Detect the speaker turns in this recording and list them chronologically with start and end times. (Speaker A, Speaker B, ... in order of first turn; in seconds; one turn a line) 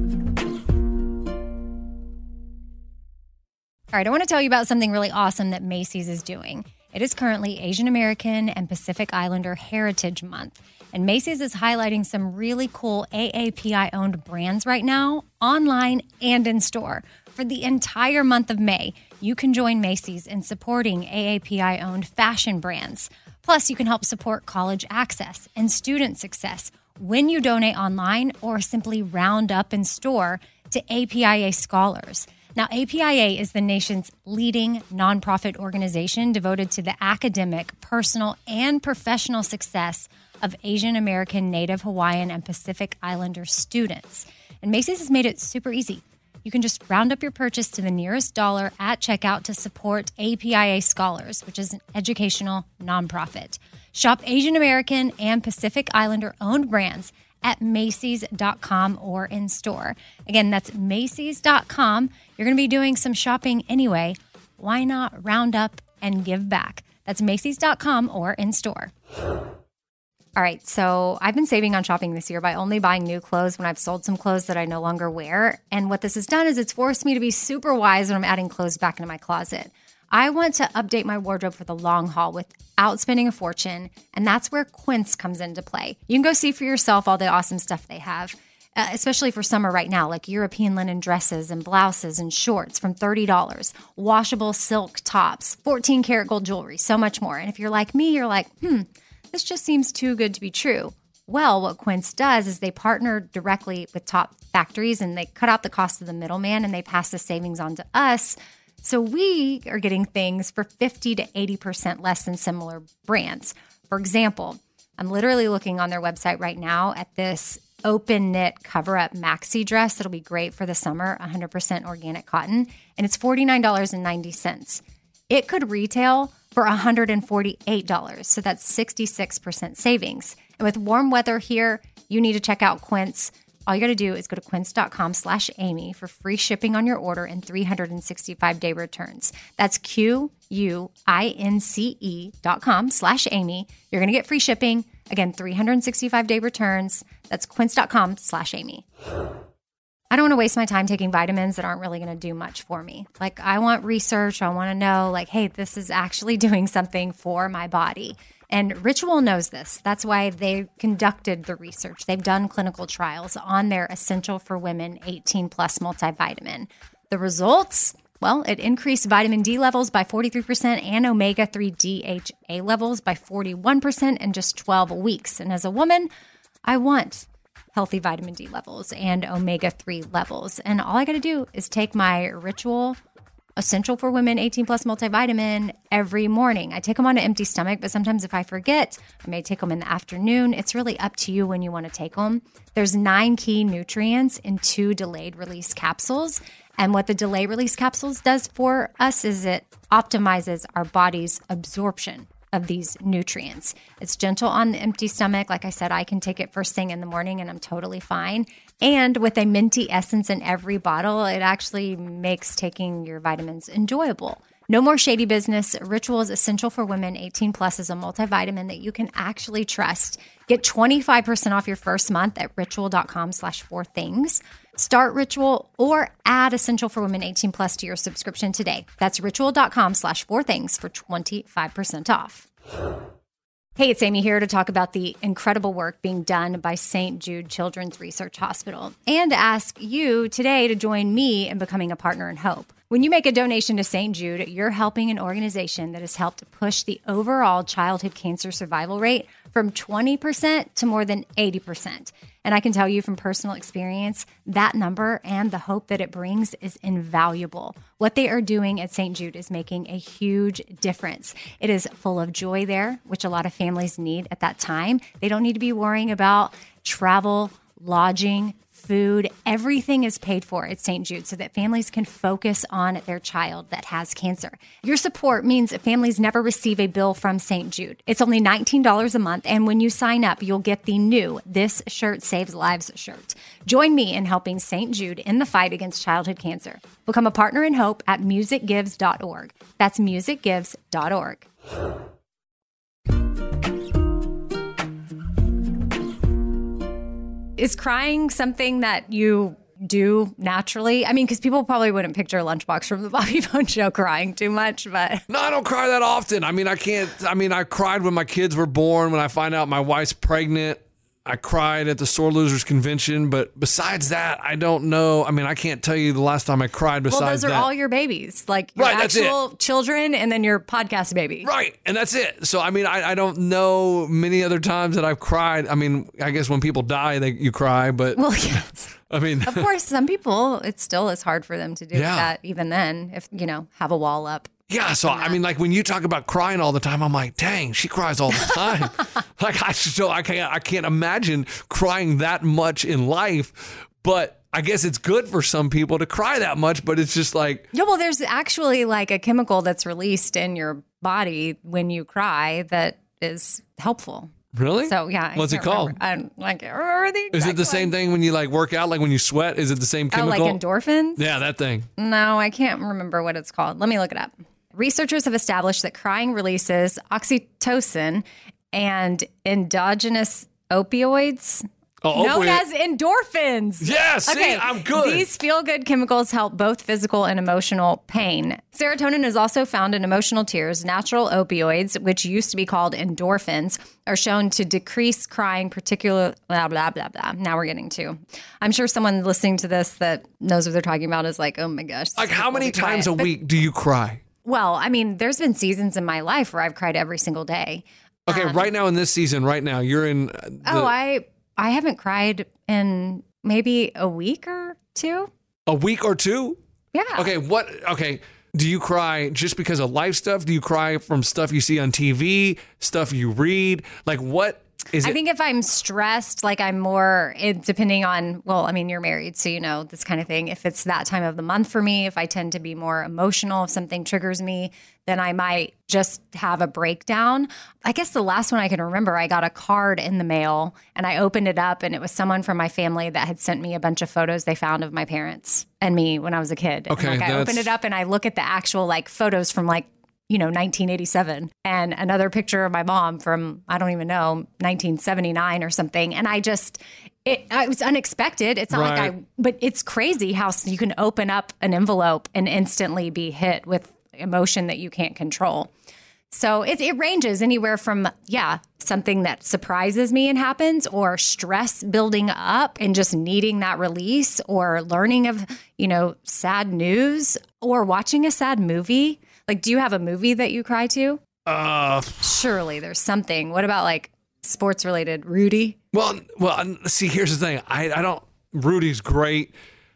Speaker A: 3.9-68.9
Speaker A: 70.3-148.8
Speaker A: 150.1-176.1
Speaker A: 176.7-183.0
Speaker A: 183.6-232.5
Speaker A: 233.8-291.4
Speaker A: 297.6-305.2
Speaker B: 305.3-317.7
Speaker A: 317.1-321.5
Speaker B: 318.8-319.4
Speaker B: 321.4-329.7
Speaker A: 328.1-328.9
Speaker A: 329.4-335.4
Speaker B: 331.9-332.3
Speaker B: 334.7-347.7
Speaker A: 347.7-354.3
Speaker B: 354.5-355.9
Speaker A: 354.8-357.9
Speaker B: 357.3-360.6
Speaker A: 360.1-361.3
Speaker B: 361.2-361.9
Speaker A: 362.0-393.3
Speaker B: 372.0-372.6
Speaker B: 373.8-375.3
Speaker B: 392.1-394.2
Speaker A: 394.4-398.7
Speaker B: 398.3-400.9
Speaker A: 400.6-405.3
Speaker B: 405.7-406.6
Speaker A: 406.9-407.3
Speaker B: 407.1-415.2
Speaker A: 415.0-455.7
Speaker B: 436.9-437.7
Speaker B: 448.7-449.1
Speaker A: 456.3-471.2
Speaker B: 471.4-472.4
Speaker A: 472.2-475.8
Speaker B: 475.9-479.5